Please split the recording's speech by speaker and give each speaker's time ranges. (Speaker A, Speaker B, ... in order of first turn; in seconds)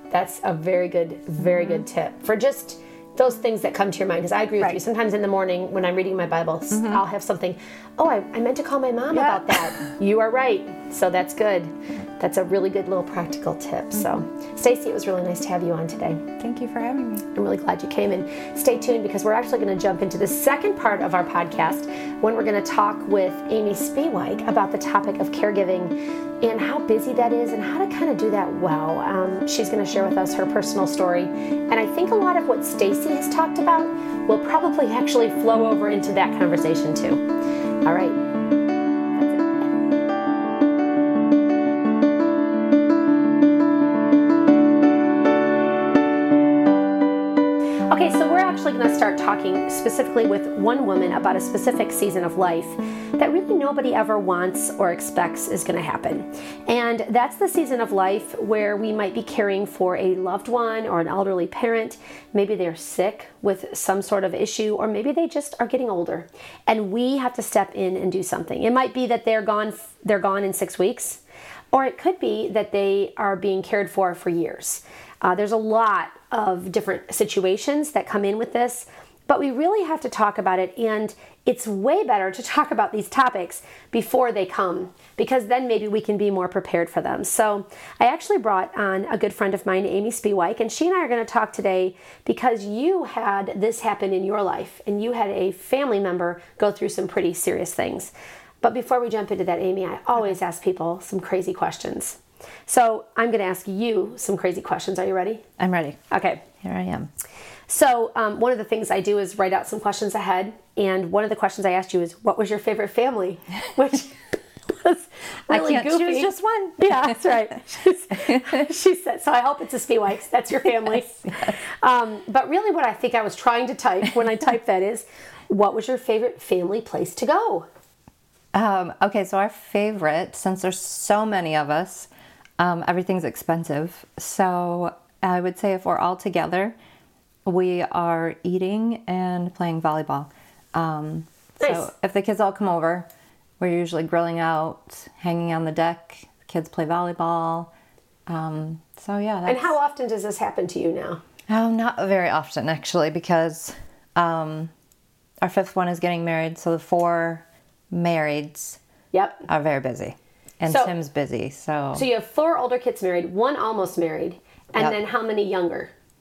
Speaker A: 0.1-16.2, 17.3-37.3, 37.9-38.2, 47.9-71.2, 71.7-105.4, 106.1-106.4, 107.7-127.7, 141.6-141.9, 149.5-151.2, 159.1-159.5, 160.7-160.9, 161.9-165.9
Speaker B: 1.4-1.8, 6.7-7.0, 9.1-9.8, 16.4-17.3
Speaker C: 105.6-106.0, 106.6-107.1, 115.5-117.5, 118.2-118.7, 128.5-132.1, 132.6-136.8, 137.4-143.1, 143.6-147.7, 148.3-149.8, 151.5-154.7, 155.4-158.8, 159.5-162.1